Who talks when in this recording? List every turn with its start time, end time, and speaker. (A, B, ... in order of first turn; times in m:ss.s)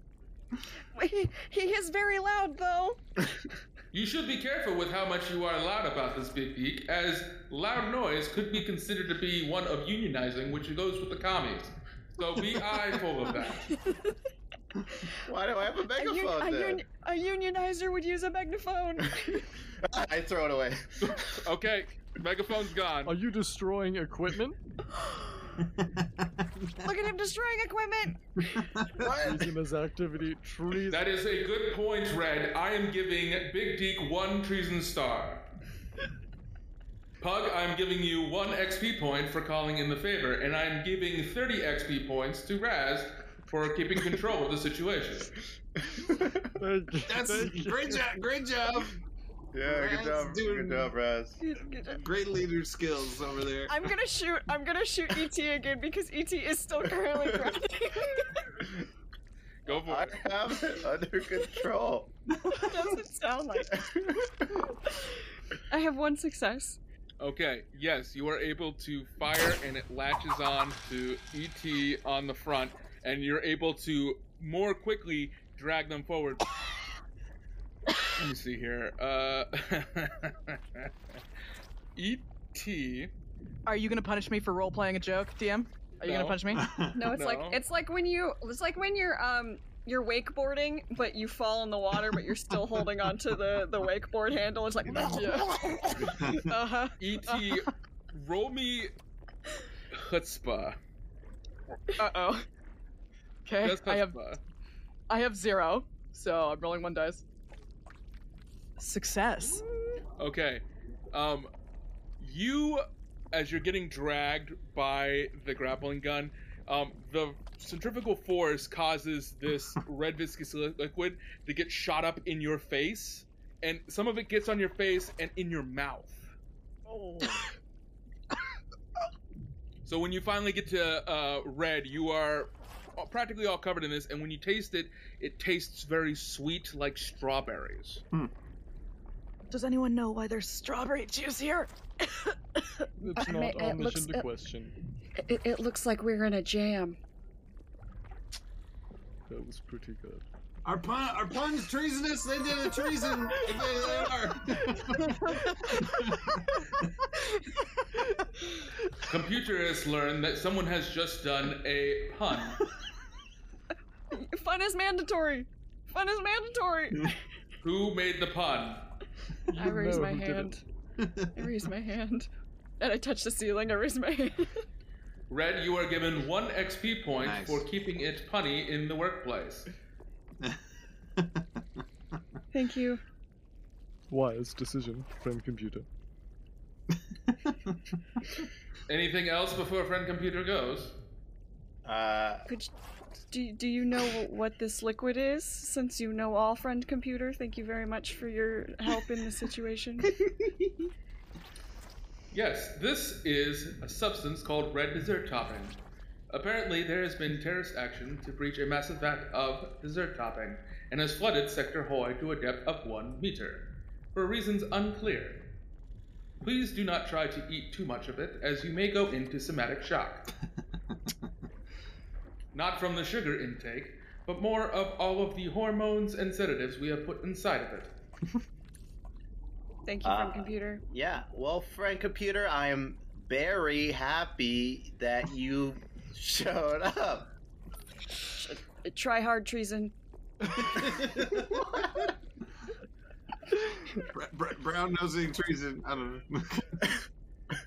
0:01.0-0:03.0 A
0:03.9-0:13.7 B
0:13.7-0:14.1 A
0:15.2-0:16.8 C
0:16.0-0:19.5 A
0:19.8-0:21.2 C
0:21.0-0:23.1 B
0:23.0-0:24.6 D
0:24.9-0:25.6 A
0:25.8-0:26.8 E
0:26.8-0:28.6 A
0:28.6-0:28.9 E
0:29.0-0:29.5 C
0:29.1-0:31.1 D
0:30.9-0:35.4 B
0:37.2-0:45.3 B
0:46.6-0:48.1 D
0:47.1-0:49.0 E
0:49.5-0:51.4 C
0:49.6-0:50.9 E
0:51.4-0:52.0 A
0:51.8-0:53.8 E
0:53.7-0:58.6 A
0:59.6-1:00.2 B
0:59.7-1:02.1 C
1:02.5-1:03.9 A
1:05.7-1:06.8 A
1:07.2-1:16.4 B
1:18.2-1:20.9 B
1:22.0-1:23.1 B
1:23.7-1:26.6 F
1:26.0-1:26.4 B
1:26.6-1:27.1 E
1:26.9-1:36.0 A
1:27.1-1:27.6 B
1:34.9-1:36.5 E
1:35.1-1:37.6 F
1:37.0-1:38.9 B
1:39.9-1:40.8 B
1:42.0-1:42.5 F
1:43.5-1:44.2 F
1:43.6-1:44.4 B
1:45.1-1:47.2 F
1:48.8-1:49.6 F
1:50.2-1:51.5 B
1:52.2-2:06.3 B
2:06.9-2:07.5 F
2:09.8-2:18.0 B
2:19.5-2:22.4 F
2:23.0-2:24.8 D
2:23.0-2:24.3 A
2:25.2-2:27.0 A
2:29.3-2:30.2 D
2:30.6-2:36.9 E
2:39.1-2:42.6 B
2:44.1-2:47.2 A
2:47.6-2:48.9 B
2:49.5-2:50.5 D
2:49.6-2:50.6 A
2:51.0-2:51.3 E
2:51.4-2:52.3 A
2:52.8-2:54.6 A
2:55.3-2:59.7 B
2:57.2-2:57.7 E
3:01.2-3:01.5 E
3:02.5-3:03.0 A
3:04.1-3:05.9 D
3:08.9-3:11.0 B
3:11.8-3:12.5 C
3:13.3-3:20.2 A
3:22.3-3:25.8 B
3:26.3-3:35.5 B
3:36.4-3:40.3 B
3:42.5-3:47.9 B
3:49.9-3:50.8 A
3:50.0-3:57.3 C
3:58.3-3:59.9 A
4:00.7-4:01.2 E
4:03.9-4:06.9 E